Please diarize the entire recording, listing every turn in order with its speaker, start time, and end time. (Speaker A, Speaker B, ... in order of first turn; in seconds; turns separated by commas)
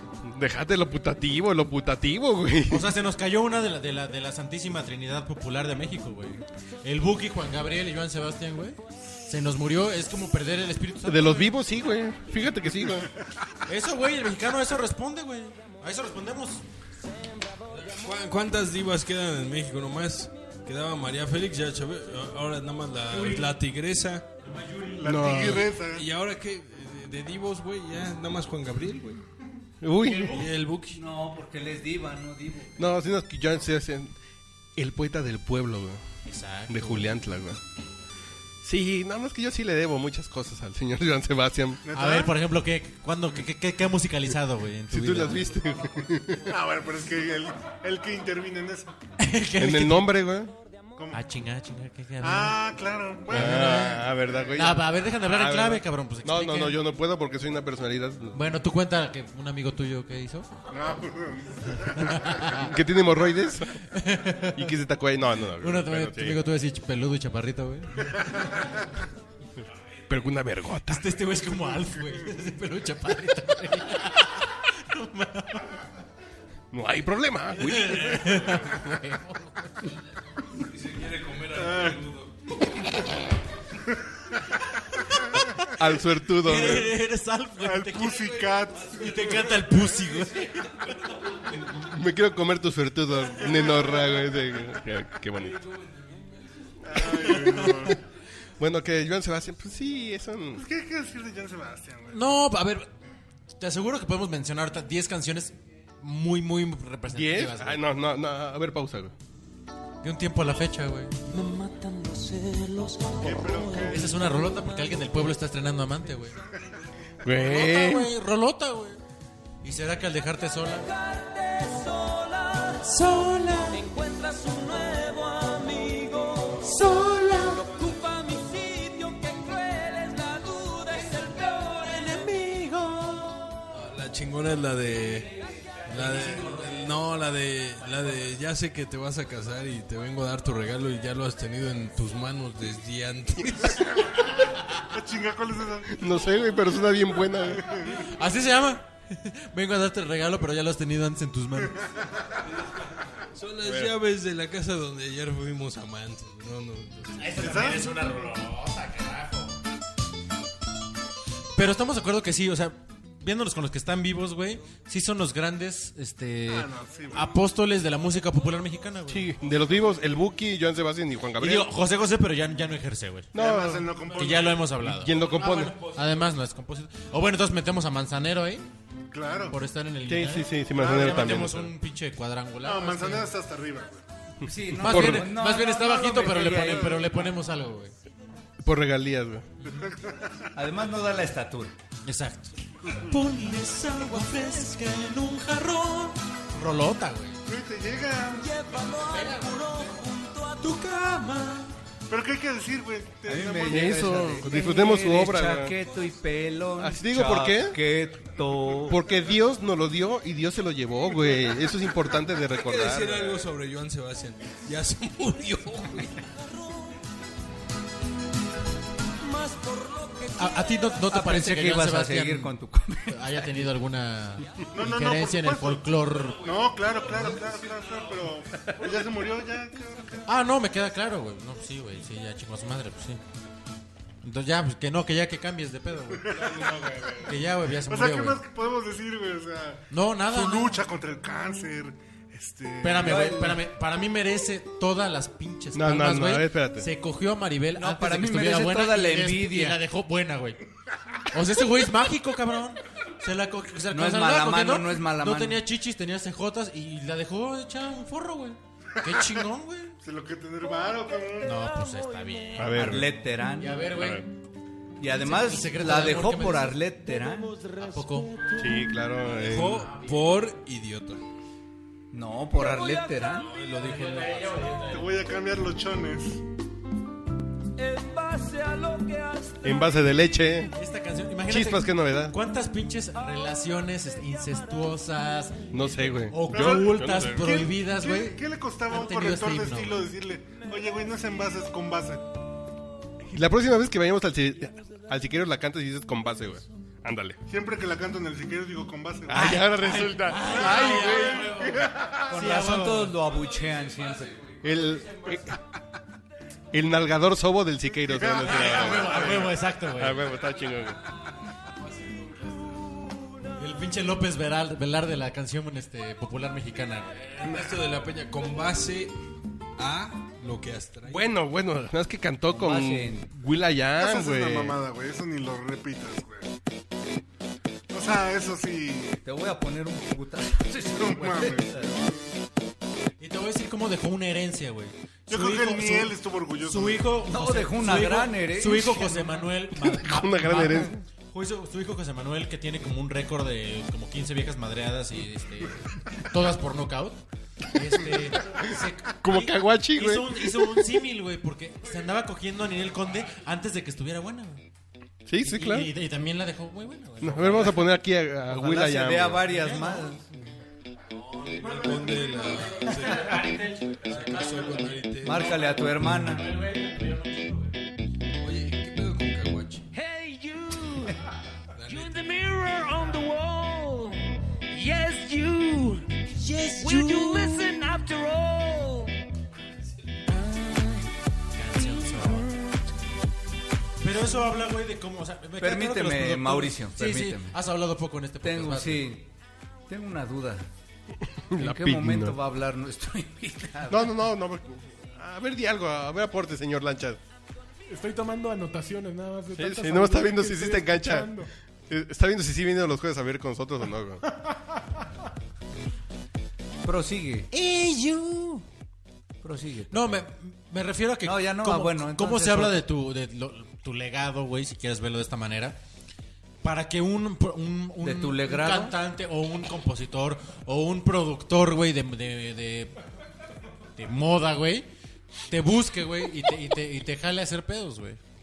Speaker A: 0.2-2.9, Speaker B: 2.7-11.6, Speaker A: 11.0-13.1, Speaker B: 13.7-16.6, Speaker C: 17.8-24.2, Speaker B: 23.1-23.5, Speaker B: 24.4-25.6, Speaker D: 25.0-26.1, Speaker A: 25.0-25.8, Speaker C: 25.9-29.2, Speaker A: 29.8-30.4, Speaker B: 30.0-30.5, Speaker C: 30.3-31.0, Speaker E: 30.9-32.9, Speaker A: 32.8-34.1, Speaker A: 34.8-36.0, Speaker B: 36.3-37.1, Speaker A: 36.7-37.6, Speaker A: 38.6-41.8, Speaker D: 41.9-42.3, Speaker B: 41.9-45.4, Speaker A: 44.9-46.5, Speaker D: 46.5-48.9, Speaker B: 49.2-50.2, Speaker A: 49.6-50.5, Speaker B: 51.1-52.6, Speaker D: 52.2-53.7, Speaker B: 53.3-56.8, Speaker A: 53.3-58.4, Speaker B: 58.3-60.5, Speaker D: 60.7-62.3, Speaker B: 61.9-62.7, Speaker A: 62.5-63.8, Speaker B: 63.8-64.8, Speaker A: 64.5-66.4, Speaker B: 65.6-68.7, Speaker A: 70.1-71.2, Speaker B: 70.9-75.8, Speaker A: 76.7-78.8, Speaker B: 77.5-79.9, Speaker F: 80.6-82.3, Speaker D: 81.6-82.1, Speaker A: 85.7-86.9, Speaker B: 86.3-88.4, Speaker D: 87.6-89.8, Speaker B: 88.9-90.9, Speaker F: 90.5-91.4, Speaker A: 91.6-95.6, Speaker F: 95.4-96.5, Speaker D: 96.8-98.0, Speaker B: 97.1-97.7, Speaker A: 97.2-97.9, Speaker A: 98.6-100.6, Speaker D: 100.6-102.2, Speaker B: 102.1-102.9, Speaker B: 103.6-107.8, Speaker A: 107.1-109.1, Speaker B: 110.0-111.2, Speaker G: 111.3-114.0, Speaker D: 113.2-114.1, Speaker B: 113.9-116.4, Speaker A: 117.2-118.1, Speaker B: 117.3-119.0, Speaker B: 119.6-120.9, Speaker G: 120.8-123.0, Speaker B: 122.8-123.8, Speaker G: 123.7-132.2, Speaker B: 126.6-127.8, Speaker B: 131.8-133.6, Speaker C: 133.7-135.3, Speaker C: 135.9-143.9, Speaker B: 136.0-136.7, Speaker D: 144.9-146.1, Speaker A: 145.9-147.7, Speaker D: 147.6-148.0, Speaker B: 147.9-151.8, Speaker C: 153.3-157.5, Speaker A: 153.6-153.9, Speaker B: 157.2-159.6, Speaker D: 157.3-157.9, Speaker B: 161.6-169.3, Speaker D: 166.5-167.4, Speaker A: 169.1-171.7, Speaker B: 171.4-173.3, Speaker A: 173.3-174.2, Speaker D: 173.3-174.7, Speaker B: 174.1-178.7, Speaker A: 174.8-175.8, Speaker F: 175.3-176.3, Speaker D: 179.1-179.6, Speaker B: 179.5-183.3, Speaker A: 180.1-181.7, Speaker D: 180.8-181.5, Speaker D: 182.6-184.0, Speaker A: 184.4-185.3, Speaker E: 184.4-187.2, Speaker B: 184.7-187.9, Speaker D: 186.5-187.3, Speaker A: 188.6-189.4, Speaker D: 189.6-190.5, Speaker E: 190.6-191.8, Speaker B: 192.1-197.4, Speaker D: 192.8-193.1, Speaker D: 197.4-198.5, Speaker G: 198.3-200.7, Speaker B: 198.9-199.9, Speaker B: 200.6-201.7, Speaker D: 202.1-204.4, Speaker E: 203.3-209.0, Speaker A: 203.7-205.8, Speaker A: 206.8-207.8, Speaker A: 208.9-213.4, Speaker C: 212.5-216.3, Speaker G: 219.2-220.8, Speaker B: 220.4-222.5, Speaker E: 221.1-223.5, Speaker B: 223.1-226.5, Speaker D: 224.7-230.2, Speaker F: 226.2-228.3, Speaker B: 230.3-233.2, Speaker B: 234.2-236.4, Speaker D: 236.1-236.7, Speaker B: 237.2-238.4, Speaker D: 237.9-243.4, Speaker B: 239.9-240.8, Speaker B: 242.8-250.6, Speaker E: 243.0-243.6, Speaker A: 245.7-246.9, Speaker E: 247.8-249.8, Speaker B: 251.3-259.9, Speaker E: 253.9-255.6, Speaker D: 259.0-259.4, Speaker D: 260.0-261.6, Speaker B: 261.4-264.3, Speaker A: 262.6-263.1, Speaker E: 262.7-263.8, Speaker A: 263.9-264.2, Speaker E: 265.0-267.6, Speaker B: 265.1-266.8, Speaker G: 267.5-268.6, Speaker B: 267.8-268.4, Speaker A: 268.6-269.8, Speaker C: 269.5-271.2, Speaker B: 269.5-270.2, Speaker E: 272.1-273.5, Speaker G: 272.9-273.2, Speaker C: 273.3-274.7, Speaker B: 273.8-275.1, Speaker D: 274.9-276.4, Speaker G: 277.8-279.9, Speaker A: 279.6-280.7, Speaker B: 280.8-290.1, Speaker A: 281.5-282.4, Speaker A: 285.7-287.4, Speaker D: 286.5-292.3, Speaker A: 293.3-297.4, Speaker D: 297.5-299.7, Speaker A: 299.3-302.1, Speaker B: 299.3-303.2, Speaker D: 300.4-302.2, Speaker E: 302.3-304.3, Speaker F: 303.3-304.7, Speaker A: 304.6-305.6, Speaker A: 306.7-311.0, Speaker D: 308.1-309.6, Speaker B: 308.4-310.3, Speaker F: 312.0-312.6, Speaker B: 313.6-317.2, Speaker C: 317.3-319.2, Speaker C: 319.8-321.2, Speaker A: 321.1-324.8, Speaker E: 322.5-323.3, Speaker D: 324.0-326.5, Speaker D: 327.9-329.2, Speaker E: 329.2-332.0, Speaker D: 330.9-331.9, Speaker B: 333.2-354.6, Speaker D: 335.3-337.1, Speaker E: 337.3-339.3, Speaker A: 339.8-341.0, Speaker A: 349.2-350.8, Speaker A: 355.3-355.9, Speaker B: 355.4-357.9, Speaker A: 357.2-359.4, Speaker E: 358.5-360.2, Speaker B: 359.5-360.2, Speaker C: 361.3-365.7, Speaker B: 362.5-365.0, Speaker E: 365.2-366.5, Speaker B: 366.0-367.8, Speaker C: 368.4-369.9, Speaker G: 369.9-371.2, Speaker C: 371.7-372.2, Speaker G: 371.9-376.2, Speaker B: 376.4-377.7, Speaker G: 376.8-379.2, Speaker B: 380.6-380.8, Speaker B: 381.5-382.6, Speaker G: 381.8-382.1, Speaker B: 384.0-389.1, Speaker E: 385.6-387.5, Speaker E: 388.4-389.3, Speaker E: 389.9-390.7, Speaker A: 391.5-392.4, Speaker E: 391.6-394.1, Speaker A: 393.9-397.2, Speaker H: 397.9-401.5, Speaker A: 399.6-401.4, Speaker A: 401.9-404.2, Speaker E: 406.8-407.5, Speaker B: 407.5-408.6, Speaker E: 409.4-410.1, Speaker B: 409.9-415.8, Speaker E: 411.2-412.8, Speaker B: 416.6-422.9, Speaker E: 418.0-418.9, Speaker B: 424.0-424.9, Speaker B: 425.5-428.2